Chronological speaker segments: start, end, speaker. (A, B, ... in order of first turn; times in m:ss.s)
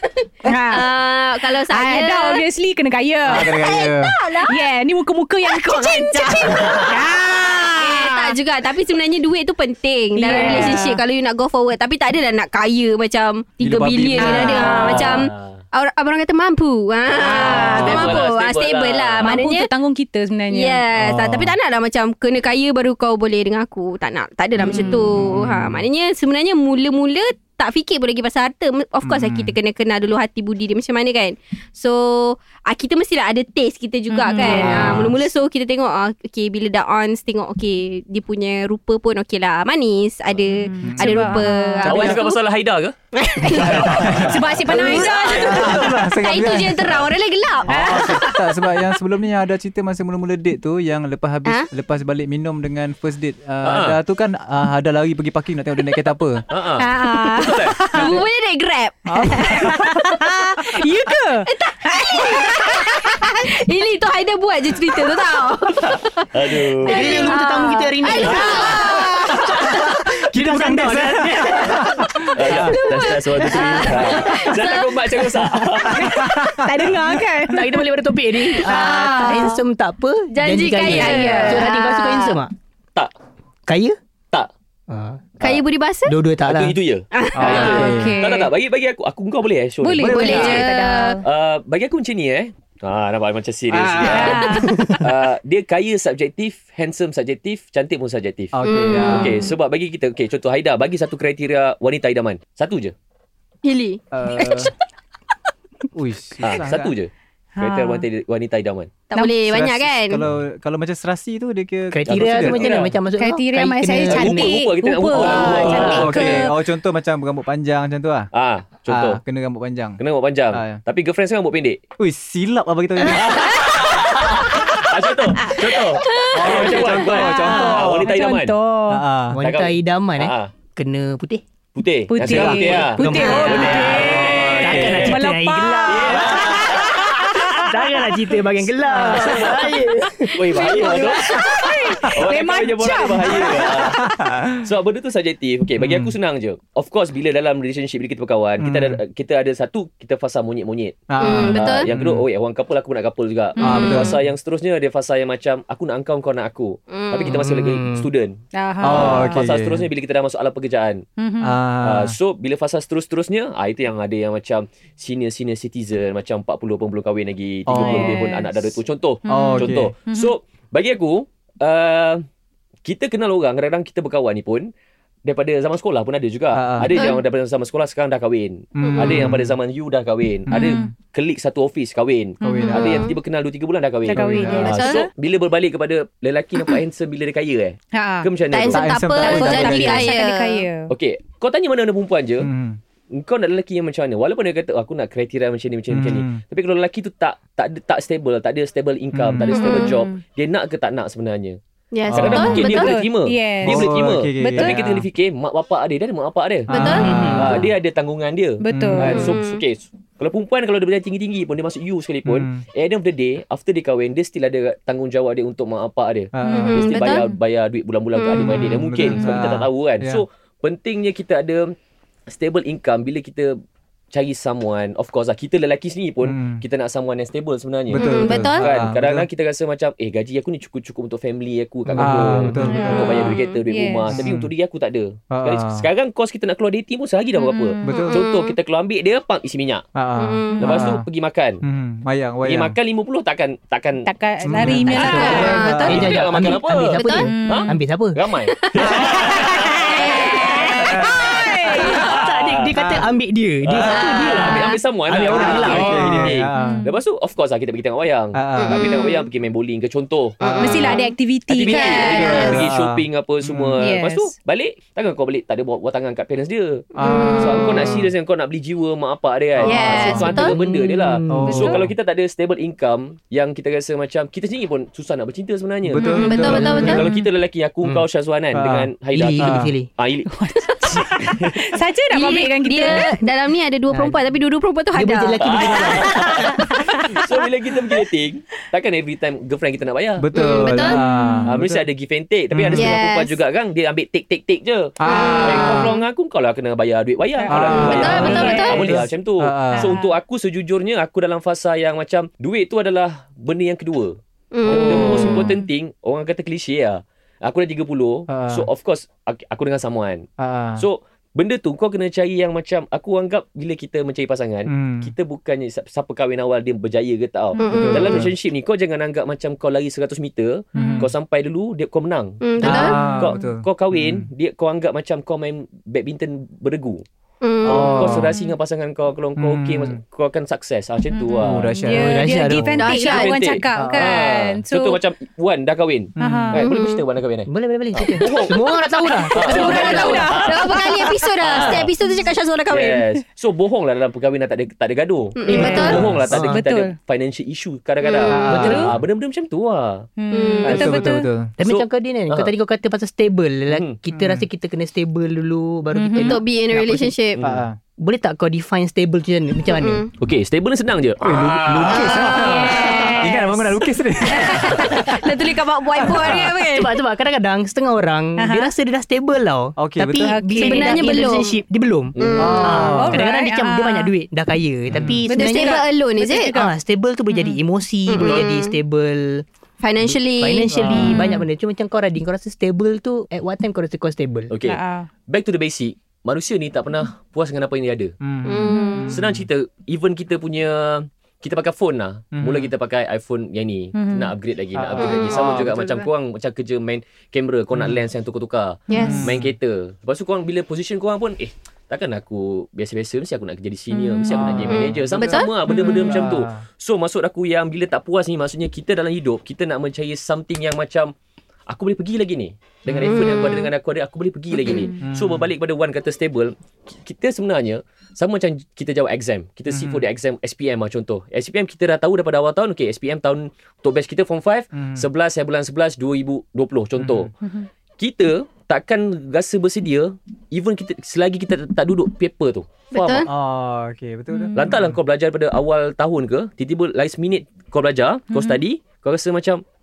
0:00.4-0:00.9 A
0:00.6-0:02.4 B
0:01.5-0:03.7 A
0:03.2-0:04.1 C
0:03.4-0:04.6 B
0:04.4-0:08.4 A
0:05.4-0:19.7 B
0:10.1-0:11.0 A
0:13.6-0:15.2 C
0:14.2-0:15.6 D
0:17.2-0:19.4 D
0:17.4-0:18.1 A
0:17.6-0:18.0 C
0:19.2-0:20.8 A
0:20.5-0:42.4 B
0:20.9-0:21.5 C
0:24.6-0:25.8 C
0:24.6-0:25.0 A
0:29.0-0:29.6 C
0:34.1-0:35.0 A
0:34.4-0:35.2 C
0:40.7-0:42.1 A
0:40.8-0:42.2 C
0:41.8-0:42.9 D
0:43.1-0:44.1 B
0:43.5-0:46.0 D
0:43.5-0:47.0 C
0:44.2-0:45.8 A
0:44.6-0:48.4 B
0:47.6-0:56.5 C
0:53.6-0:54.0 D
0:56.5-0:58.0 D
0:56.8-0:58.2 A
0:57.0-0:59.9 B
0:59.1-0:59.8 C
0:59.2-1:03.5 A
1:01.4-1:09.9 B
1:06.3-1:07.3 D
1:06.8-1:12.8 E
1:08.2-1:08.7 D
1:08.3-1:09.3 A
1:09.5-1:12.8 C
1:12.3-1:16.2 D
1:12.7-1:15.2 B
1:15.8-1:17.8 A
1:15.9-1:17.2 C
1:17.3-1:22.5 E
1:18.5-1:19.6 B
1:18.6-1:19.5 A
1:20.3-1:22.4 B
1:20.8-1:21.7 A
1:23.7-1:24.0 E
1:24.9-1:25.3 E
1:25.4-1:26.1 B
1:26.0-1:26.8 E
1:26.4-1:30.6 D
1:27.1-1:27.8 B
1:27.3-1:28.2 C
1:27.5-1:28.5 A
1:29.8-1:31.2 A
1:30.0-1:30.6 C
1:30.0-1:31.2 B
1:31.2-1:38.5 D
1:33.7-1:34.6 C
1:34.1-1:35.0 A
1:34.2-1:34.7 B
1:38.5-1:39.4 C
1:38.6-1:39.4 B
1:39.1-1:42.9 D
1:43.6-1:44.7 B
1:44.1-1:44.7 C
1:45.9-1:46.9 C
1:46.4-1:48.9 D
1:47.6-1:48.0 A
1:49.1-1:50.2 B
1:49.5-1:52.8 C
1:51.9-1:56.1 E
1:52.1-1:52.9 D
1:53.2-1:56.6 A
1:54.0-1:56.5 D
1:55.2-1:58.3 C
1:58.3-1:59.2 D
1:58.9-2:00.0 C
2:00.0-2:01.8 D
2:00.5-2:00.8 C
2:02.0-2:03.8 C
2:03.1-2:08.5 D
2:06.0-2:06.4 B
2:06.3-2:09.0 A
2:06.3-2:08.1 C
2:08.9-2:09.4 C
2:09.3-2:11.4 E
2:09.4-2:10.5 D
2:11.8-2:15.2 D
2:12.1-2:17.6 A
2:12.2-2:12.9 C
2:12.3-2:16.8 E
2:13.1-2:13.7 B
2:13.7-2:15.2 C
2:15.8-2:17.6 D
2:17.4-2:21.1 E
2:18.9-2:19.5 A
2:18.9-2:41.0 D
2:20.5-2:23.9 A
2:23.3-2:24.7 C
2:25.8-2:26.1 C
2:28.6-2:29.0 C
2:31.1-2:32.2 C
2:31.2-2:31.9 B
2:33.6-2:34.1 A
2:33.6-2:34.2 C
2:36.9-2:37.4 B
2:37.2-2:38.1 E
2:38.5-2:39.3 A
2:38.8-2:39.8 C
2:41.2-2:41.6 A
2:41.4-2:42.1 C
2:41.8-2:52.2 D
2:47.7-2:48.2 C
2:47.7-2:48.5 A
2:49.2-2:50.3 A
2:49.3-2:49.9 C
2:52.8-2:54.7 D
2:55.2-3:09.8 D
2:56.5-2:57.0 C
2:56.8-2:57.2 B
2:58.8-2:59.5 C
3:00.5-3:00.8 C
3:00.5-3:00.9 A
3:02.4-3:02.9 A
3:02.4-3:03.1 C
3:02.7-3:03.1 B
3:04.1-3:05.1 A
3:04.1-3:04.8 C
3:04.5-3:05.0 B
3:07.9-3:08.3 A
3:08.5-3:10.6 B
3:08.7-3:10.2 C
3:09.3-3:10.9 A
3:10.9-3:12.5 D
3:12.4-3:12.8 C
3:13.1-3:21.6 D
3:15.9-3:16.4 C
3:19.1-3:19.5 C
3:19.5-3:20.0 B
3:19.6-3:20.0 A
3:21.9-3:23.0 B
3:22.1-3:22.6 C
3:22.1-3:41.7 D
3:22.2-3:24.8 A
3:23.6-3:25.0 C
3:26.7-3:27.7 C
3:26.7-3:27.1 B
3:27.0-3:27.6 E
3:28.6-3:29.2 A
3:28.7-3:29.2 C
3:29.0-3:29.6 B
3:32.2-3:32.6 C
3:36.3-3:36.8 C
3:36.5-3:37.2 B
3:38.3-3:40.2 C
3:42.3-3:43.6 D
3:44.1-3:59.8 D
3:46.2-3:46.6 C
3:47.9-3:49.2 C
3:48.0-3:48.4 A
3:48.0-3:48.6 B
3:51.9-3:53.3 C
3:52.6-3:54.2 A
3:52.7-3:53.6 B
3:54.1-3:54.5 C
3:55.3-3:55.8 C
3:57.4-3:58.1 A
3:57.8-3:58.2 C
3:57.9-3:58.5 B
3:59.9-4:01.0 C
4:00.2-4:00.6 B
4:00.6-4:01.6 D
4:01.6-4:02.8 C
4:02.4-4:04.1 D
4:04.0-4:06.5 A
4:04.4-4:06.1 C
4:04.6-4:12.7 D
4:05.0-4:08.2 E
4:06.9-4:07.3 B
4:07.3-4:07.7 A
4:09.1-4:12.0 A
4:10.0-4:10.5 B
4:10.8-4:12.0 C
4:11.9-4:16.4 E
4:12.7-4:13.1 C
4:13.6-4:40.3 D
4:13.8-4:14.4 C
4:15.3-4:16.8 C
4:16.5-4:16.9 A
4:18.3-4:18.8 C
4:18.6-4:19.3 B
4:20.4-4:21.0 B
4:20.6-4:22.5 A
4:21.7-4:22.6 B
4:22.0-4:23.8 C
4:23.8-4:24.3 A
4:26.9-4:28.1 C
4:27.0-4:27.7 B
4:29.6-4:30.6 C
4:29.6-4:30.5 B
4:30.4-4:31.8 E
4:31.3-4:31.9 C
4:35.8-4:37.1 C
4:36.0-4:37.1 A
4:36.0-4:37.0 B
4:37.8-4:39.7 C
4:39.1-4:39.9 E
4:40.2-4:43.2 A
4:40.8-4:41.6 D
4:42.1-4:45.4 B
4:44.9-4:46.5 E
4:45.4-4:50.2 D
4:46.4-4:47.2 A
4:50.2-4:51.8 C
4:50.3-4:51.0 B
4:50.6-4:51.5 A
4:51.4-5:10.2 D
4:52.5-4:53.0 C
4:52.7-4:53.4 B
4:55.0-4:56.0 C
4:55.1-4:55.8 B
4:57.4-4:59.0 A
4:57.5-4:59.9 C
4:57.8-4:58.8 B
4:59.7-5:00.1 A
5:04.5-5:05.5 B
5:08.3-5:08.7 C
5:10.4-5:10.8 C
5:10.8-5:27.0 D
5:14.7-5:15.1 C
5:17.6-5:18.2 B
5:17.7-5:18.3 C
5:20.8-5:21.1 A
5:20.8-5:21.1 C
5:22.4-5:22.9 B
5:22.6-5:24.3 C
5:22.9-5:23.3 A
5:27.4-5:28.0 B
5:27.6-5:28.3 C
5:27.6-5:31.7 D
5:29.4-5:30.0 C
5:31.1-5:35.0 A
5:31.4-5:32.8 C
5:31.8-5:32.8 E
5:32.8-5:33.3 B
5:32.9-5:38.6 D
5:33.7-5:34.2 C
5:36.2-5:36.6 C
5:36.2-5:36.6 A
5:36.6-5:37.0 B
5:37.5-5:40.3 E
5:39.2-5:43.0 B
5:39.2-5:41.1 A
5:39.3-5:40.7 D
5:41.4-5:41.9 D
5:42.7-5:50.1 D
5:45.4-5:46.0 B
5:45.5-5:46.9 A
5:45.5-5:46.6 C
5:45.6-5:46.2 E
5:48.0-5:48.3 B
5:48.3-5:49.0 C
5:48.5-5:48.9 E
5:50.2-5:51.3 A
5:50.3-5:51.0 B
5:50.6-5:51.5 C
5:51.6-5:57.1 E
5:51.6-5:52.5 D
5:53.7-5:54.0 D
5:54.1-5:54.5 C
5:55.9-5:56.4 A
5:56.1-5:57.4 B
5:57.3-5:57.6 D
5:57.4-5:57.8 C
5:58.0-6:00.0 E
5:59.7-6:00.1 B
6:00.2-6:02.4 D
6:01.2-6:05.2 C
6:01.9-6:03.5 B
6:02.5-6:03.4 A
6:04.3-6:06.9 B
6:06.0-6:06.3 C
6:06.2-6:15.8 E
6:08.4-6:08.7 A
6:09.8-6:10.4 C
6:10.2-6:11.3 A
6:10.6-6:11.6 B
6:12.2-6:12.5 D
6:12.2-6:12.8 B
6:12.4-6:13.2 C
6:12.7-6:14.1 A
6:14.9-6:15.2 C
6:15.2-6:16.7 A
6:15.3-6:16.5 B
6:16.4-6:19.4 E
6:17.3-6:17.6 A
6:18.1-6:18.7 B
6:19.8-6:21.2 B
6:20.0-6:24.5 E
6:20.7-6:21.2 C
6:20.9-6:21.4 A
6:24.5-6:28.1 D
6:24.6-6:25.1 A
6:28.2-6:29.5 C
6:28.4-6:29.1 B
6:28.7-6:29.1 A
6:29.1-6:51.1 D
6:32.3-6:32.7 C
6:33.9-6:34.3 A
6:34.7-6:36.0 C
6:35.0-6:35.3 B
6:37.7-6:38.0 C
6:38.9-6:39.3 B
6:38.9-6:39.3 A
6:39.0-6:39.5 C
6:43.9-6:45.5 B
6:44.3-6:46.6 C
6:45.8-6:46.0 A
6:51.7-7:07.3 D
6:52.9-6:53.2 C
6:53.0-6:53.7 B
6:55.0-6:55.5 C
6:59.7-7:00.0 C
7:04.7-7:05.0 C
7:07.0-7:07.3 C
7:07.4-7:07.7 A
7:08.0-7:13.3 D
7:12.9-7:13.3 B
7:13.3-7:14.7 C
7:14.3-7:14.7 A
7:14.5-7:19.6 D
7:18.3-7:18.6 A